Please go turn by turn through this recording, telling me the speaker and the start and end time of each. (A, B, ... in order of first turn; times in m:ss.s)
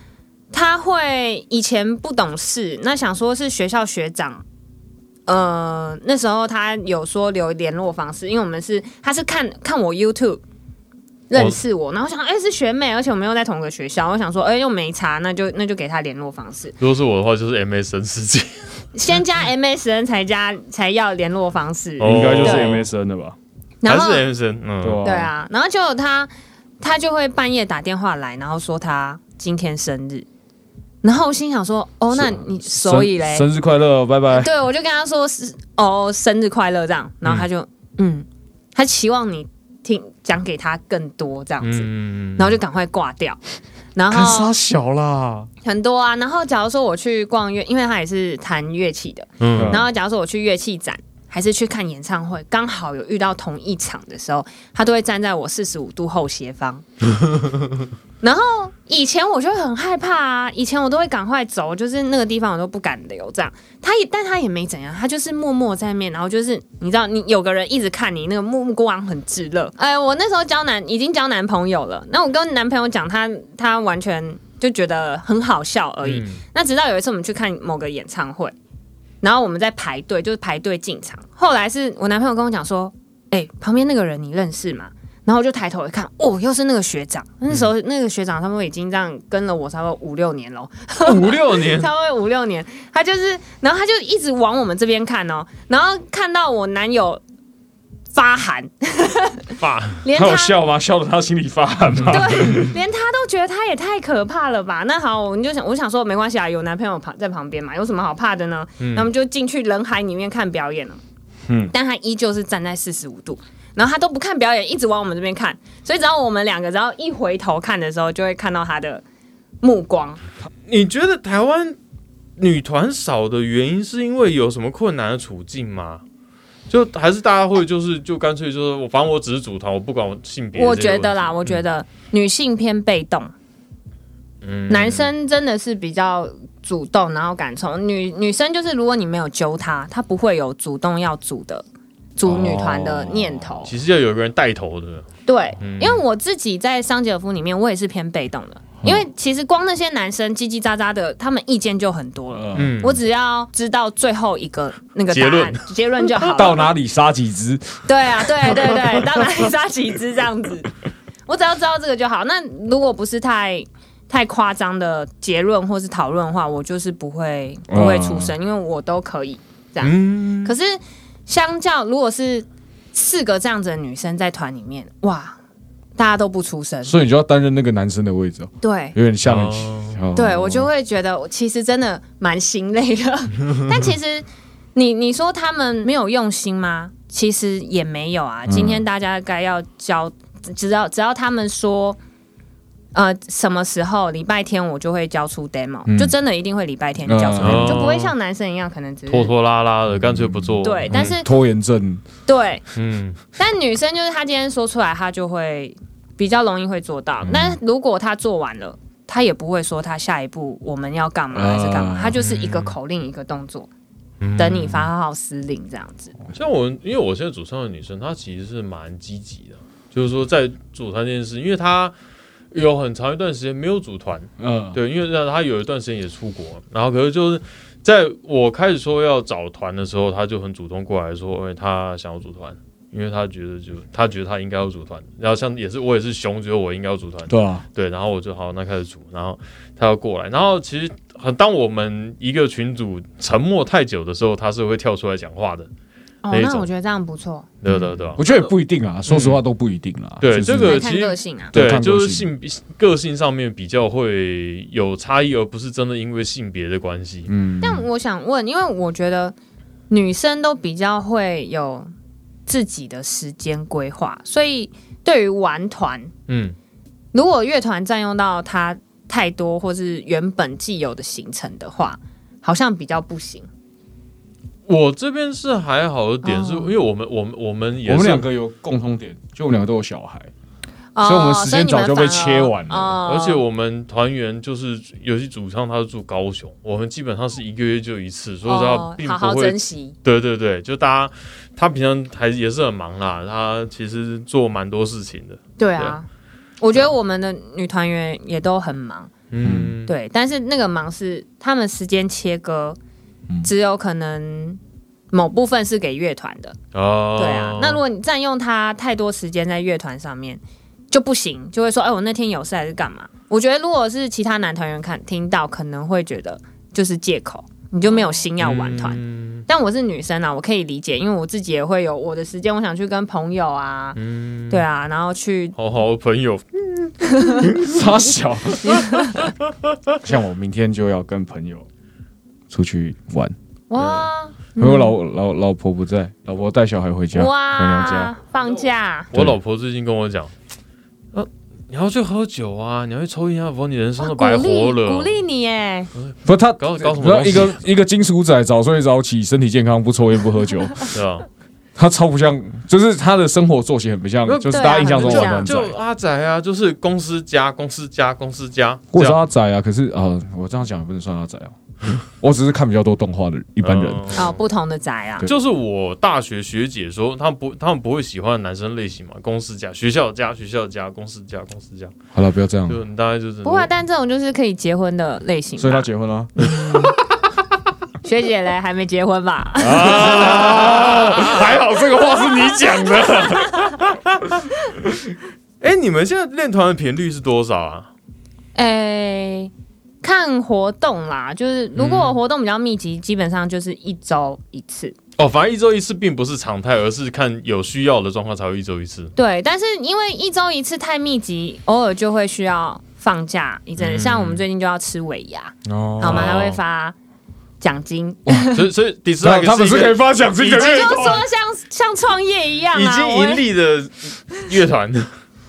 0:00.5-0:04.4 A
0:05.3-0:10.4 A
0:11.3-0:16.8 A
0:16.8-0:18.8 B
0:18.9-0:22.8 A
0:22.0-0:22.9 B
0:22.0-0:23.4 C
0:23.8-0:24.2 A
0:23.8-0:25.0 B
0:24.8-0:25.3 C
0:25.0-0:30.3 A
0:31.0-0:33.5 A
0:32.1-0:34.5 C
0:34.3-0:43.4 A
0:41.6-0:42.6 B
0:44.0-0:44.5 A
0:44.1-0:45.5 C
0:45.6-0:56.8 A
0:49.4-0:49.8 B
0:49.6-0:49.9 C
0:58.2-1:18.6 A
1:16.0-1:16.4 B
1:19.2-1:37.2 A
1:31.0-1:31.9 B
1:38.1-1:40.6 A
1:39.6-1:40.0 B
1:40.1-1:42.8 C
1:42.1-1:51.0 A
1:48.8-1:49.1 B
1:51.5-1:51.7 C
1:51.7-1:59.0 A
1:59.6-2:00.2 A
2:00.7-2:01.8 B
2:02.4-2:06.0 B
2:06.7-2:11.6 B
2:10.6-2:13.3 A
2:14.4-2:15.1 B
2:14.7-2:23.7 A
2:22.2-2:23.5 C
2:23.6-2:26.0 B
2:25.3-2:36.7 A
2:32.3-2:32.8 C
2:32.6-2:33.0 B
2:35.1-2:35.7 B
2:36.4-2:37.9 C
2:37.9-2:40.7 A
2:38.4-2:38.8 C
2:41.3-2:55.4 A
2:47.7-2:48.3 C
2:49.8-2:50.6 B
2:56.0-2:57.0 A
2:56.8-3:00.7 C
2:58.6-2:59.0 A
2:59.2-3:00.0 B
3:00.2-3:12.0 A
3:08.5-3:08.8 C
3:12.9-3:19.3 A
3:15.9-3:16.1 C
3:17.1-3:17.8 C
3:17.4-3:18.1 B
3:19.1-3:21.2 B
3:20.0-3:22.0 C
3:20.6-3:21.3 A
3:22.3-3:22.6 A
3:22.8-3:23.2 B
3:23.4-3:33.7 A
3:27.3-3:27.6 C
3:31.3-3:32.2 C
3:32.2-3:32.8 B
3:34.2-3:34.9 B
3:34.4-3:36.1 A
3:36.3-3:41.9 B
3:42.5-4:05.7 B
3:44.4-3:44.8 C
3:57.3-3:57.6 C
4:06.2-4:07.5 A
4:06.3-4:06.7 B
4:07.6-4:08.3 B
4:07.7-4:10.9 C
4:09.1-4:09.4 B
4:10.2-4:17.3 B
4:10.6-4:11.6 A
4:11.5-4:12.3 C
4:17.3-4:17.9 C
4:17.6-4:19.4 A
4:19.9-4:21.9 A
4:22.5-4:26.1 A
4:26.3-4:26.6 B
4:27.1-4:33.5 A
4:34.7-4:38.2 B
4:36.2-4:36.7 A
4:37.9-4:40.3 C
4:41.0-4:43.4 A
4:41.0-4:43.0 C
4:43.1-4:56.0 B
4:48.5-4:50.0 A
4:55.6-4:56.1 A
4:56.6-4:59.1 A
4:59.3-4:59.9 B
4:59.4-4:59.8 C
4:59.9-5:02.8 A
5:03.4-5:04.6 A
5:05.1-5:06.6 A
5:06.7-5:07.8 B
5:07.2-5:24.0 A
5:17.9-5:19.4 B
5:24.0-5:24.6 B
5:24.5-5:25.6 A
5:25.6-5:27.5 B
5:27.0-5:27.6 A
5:27.4-5:28.9 C
5:28.6-5:29.3 A
5:30.0-5:31.7 C
5:32.5-5:33.4 C
5:33.7-5:35.0 A
5:33.8-5:34.1 B
5:34.6-5:38.1 C
5:37.1-5:39.1 A
5:39.1-5:40.3 B
5:41.1-5:45.2 B
5:44.0-5:45.9 A
5:46.0-5:47.6 B
5:46.3-5:50.9 C
5:50.9-5:51.3 B
5:51.8-5:55.8 C
5:54.3-5:59.2 B
5:54.4-5:55.6 A
5:58.9-6:01.6 C
6:02.1-6:04.2 C
6:03.6-6:04.4 B
6:04.2-6:05.3 A
6:05.2-6:11.9 B
6:12.1-6:12.8 C
6:12.7-6:13.7 B
6:13.4-6:15.9 A
6:15.6-6:16.5 C
6:16.5-6:16.8 A
6:18.0-6:20.5 A
6:19.6-6:23.8 C
6:19.8-6:21.6 B
6:25.6-6:27.9 B
6:28.6-6:35.0 A
6:31.8-6:32.2 B
6:35.2-6:39.1 B
6:39.2-6:47.0 A
6:43.8-6:44.4 B
6:45.7-6:46.3 C
6:46.0-6:46.6 B
6:47.6-6:48.7 A
6:48.5-6:51.2 B
6:49.2-6:51.2 C
6:50.5-6:53.4 A
6:52.7-6:55.1 B